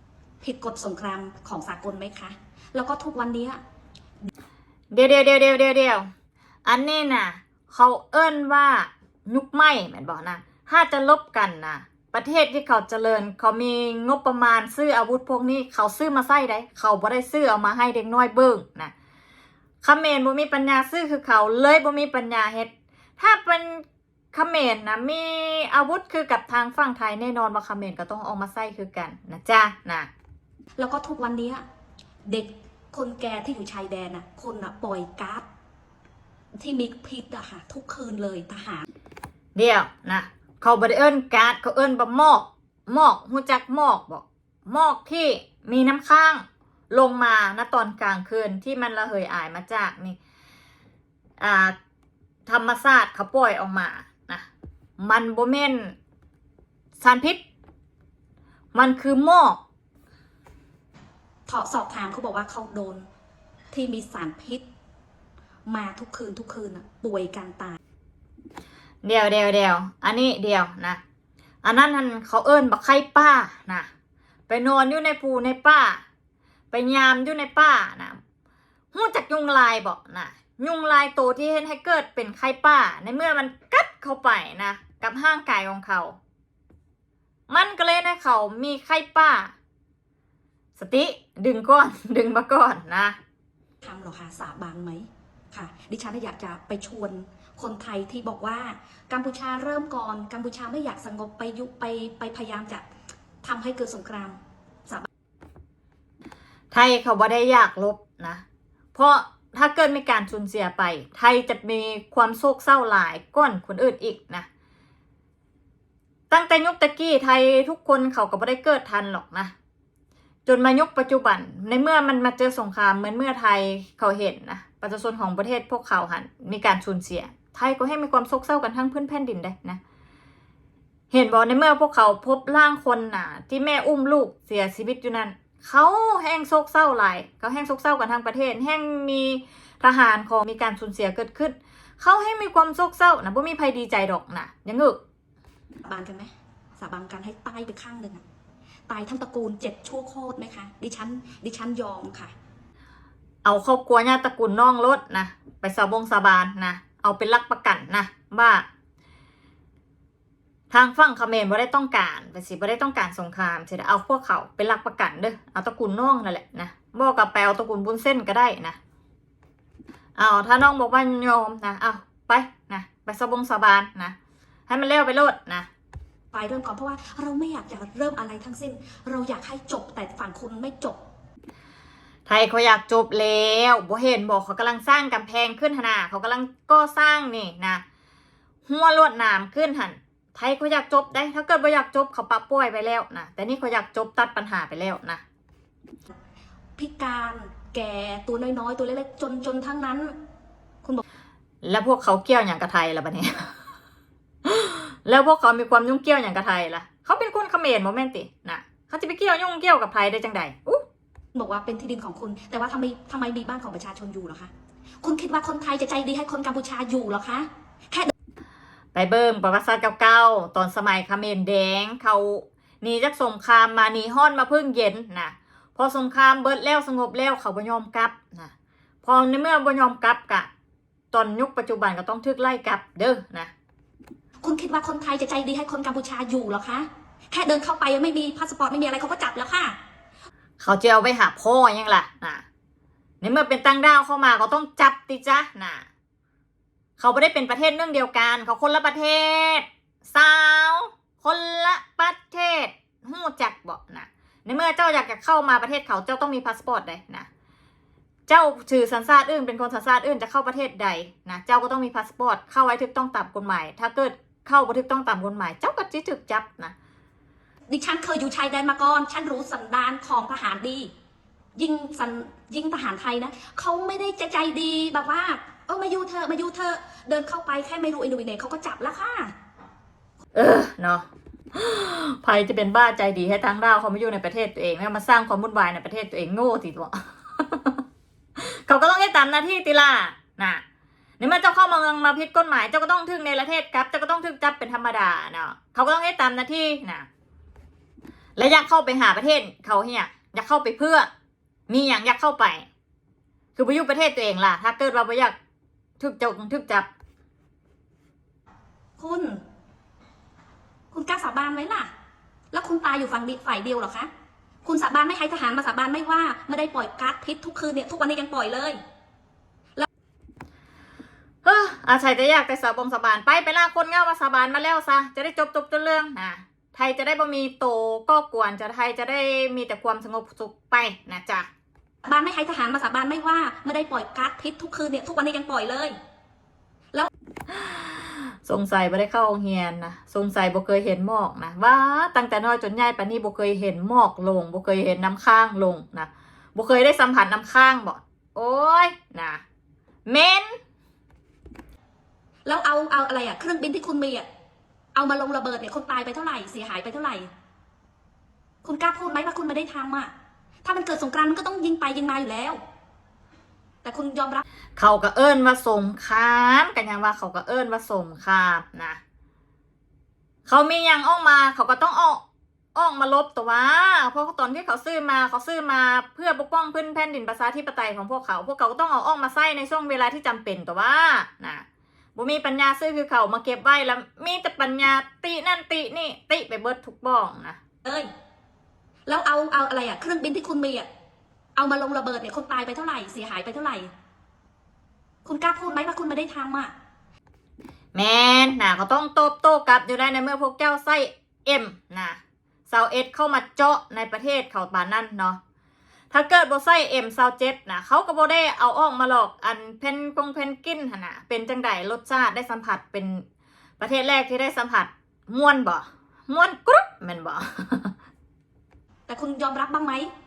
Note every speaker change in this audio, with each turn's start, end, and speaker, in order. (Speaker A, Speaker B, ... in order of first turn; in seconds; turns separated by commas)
Speaker A: 0.4-3.6, Speaker B: 4.9-6.1, Speaker B: 6.6-18.9, Speaker B: 19.8-30.1, Speaker A: 30.8-31.6, Speaker A: 32.3-35.5, Speaker A: 36.5-38.9, Speaker B: 39.5-50.2, Speaker B: 51.4-51.8, Speaker B: 52.5-54.5, Speaker B: 55.0-56.0, Speaker B: 57.0-57.4, Speaker B: 58.7-59.6, Speaker A: 61.5-63.1, Speaker A: 63.7-64.6, Speaker A: 65.7-67.8, Speaker B: 69.0-71.0, Speaker B: 71.6-73.9, Speaker B: 74.5-76.0, Speaker B: 76.7-78.2, Speaker B: 78.9-86.2, Speaker B: 87.5-89.5, Speaker B: 90.8-93.2, Speaker A: 93.8-102.8, Speaker A: 103.4-105.1, Speaker B: 106.7-108.4, Speaker B: 108.9-114.5, Speaker B: 116.3-119.5, Speaker B: 120.5-129.8, Speaker B: 131.1-145.0, Speaker A: 145.8-148.2, Speaker A: 148.9-152.3, Speaker B: 153.4-158.6, Speaker B: 160.7-168.8, Speaker B: 170.2-174.2, Speaker B: 174.7-175.7, Speaker A: 176.3-181.0, Speaker B: 182.3-187.8, Speaker B: 188.7-195.2, Speaker A: 196.8-200.2, Speaker B: 201.6-203.5, Speaker B: 204.4-210.8, Speaker A: 211.3-218.1, Speaker B: 218.9-230.5, Speaker B: 231.1-233.5, Speaker A: 234.4-239.8, Speaker B: 240.6-242.4, Speaker B: 243.2-245.9, Speaker B: 247.0-257.3, Speaker B: 258.3-266.7, Speaker A: 267.7-270.9, Speaker A: 271.6-279.3, Speaker B: 280.3-287.8, Speaker B: 288.4-290.6, Speaker B: 291.2-297.1, Speaker B: 298.4-301.1, Speaker B: 301.7-302.7, Speaker B: 303.6-305.4, Speaker B: 306.0-306.9, Speaker A: 309.0-309.4, Speaker A: 310.9-311.9, Speaker A: 312.5-314.1, Speaker A: 314.6-318.8, Speaker B: 321.4-331.5, Speaker A: 332.0-336.0, Speaker B: 337.5-337.9, Speaker B: 338.4-349.4, Speaker B: 350.1-350.6, Speaker A: 352.4-354.2, Speaker A: 354.9-357.3, Speaker A: 358.6-360.1, Speaker A: 360.6-362.6, Speaker A: 363.8-364.4, Speaker B: 364.8-369.0, Speaker B: 370.5-372.2, Speaker B: 372.8-381.6, Speaker B: 382.2-387.6, Speaker A: 389.1-390.9, Speaker A: 391.6-393.9, Speaker A: 395.2-396.7, Speaker B: 397.9-405.4, Speaker B: 406.1-413.2, Speaker B: 413.8-417.9, Speaker A: 419.1-420.1